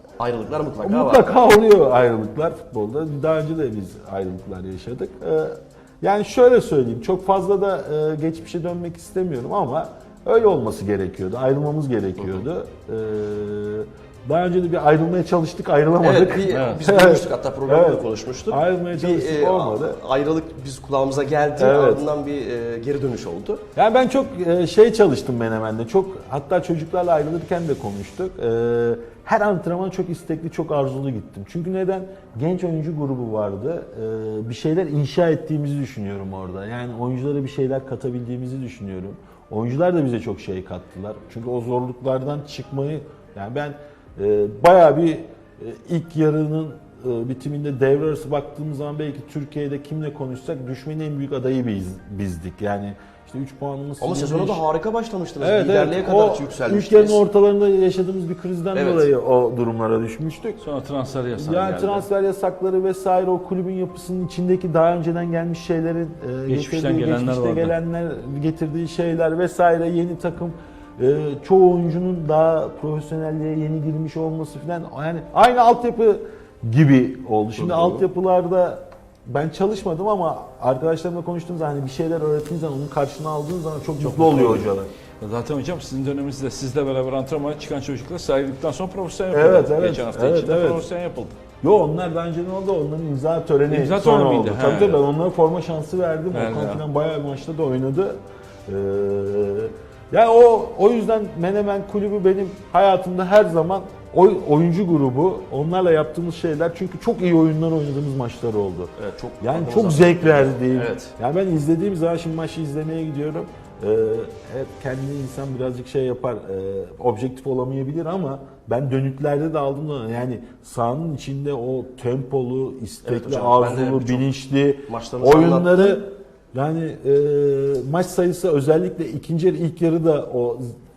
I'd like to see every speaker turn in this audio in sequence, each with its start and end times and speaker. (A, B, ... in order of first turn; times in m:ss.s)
0:00.2-0:01.4 A
0:00.8-0:20.0 B
0:12.2-0:12.5 A
0:16.0-0:23.6 A
0:16.5-0:16.8 C
0:21.6-0:22.1 B
0:23.8-0:54.6 B
0:54.0-0:57.2 A
0:55.4-1:00.7 B
0:58.7-0:59.1 A
1:00.6-1:02.1 C
1:01.4-1:24.9 B
1:06.5-1:07.8 C
1:17.6-1:18.1 A
1:24.0-1:31.4 C
1:29.3-1:30.9 B
1:31.6-2:10.7 B
1:33.7-1:35.0 C
1:36.3-1:36.8 C
1:49.0-1:51.1 A
2:03.0-2:04.3 A
2:04.9-2:06.0 A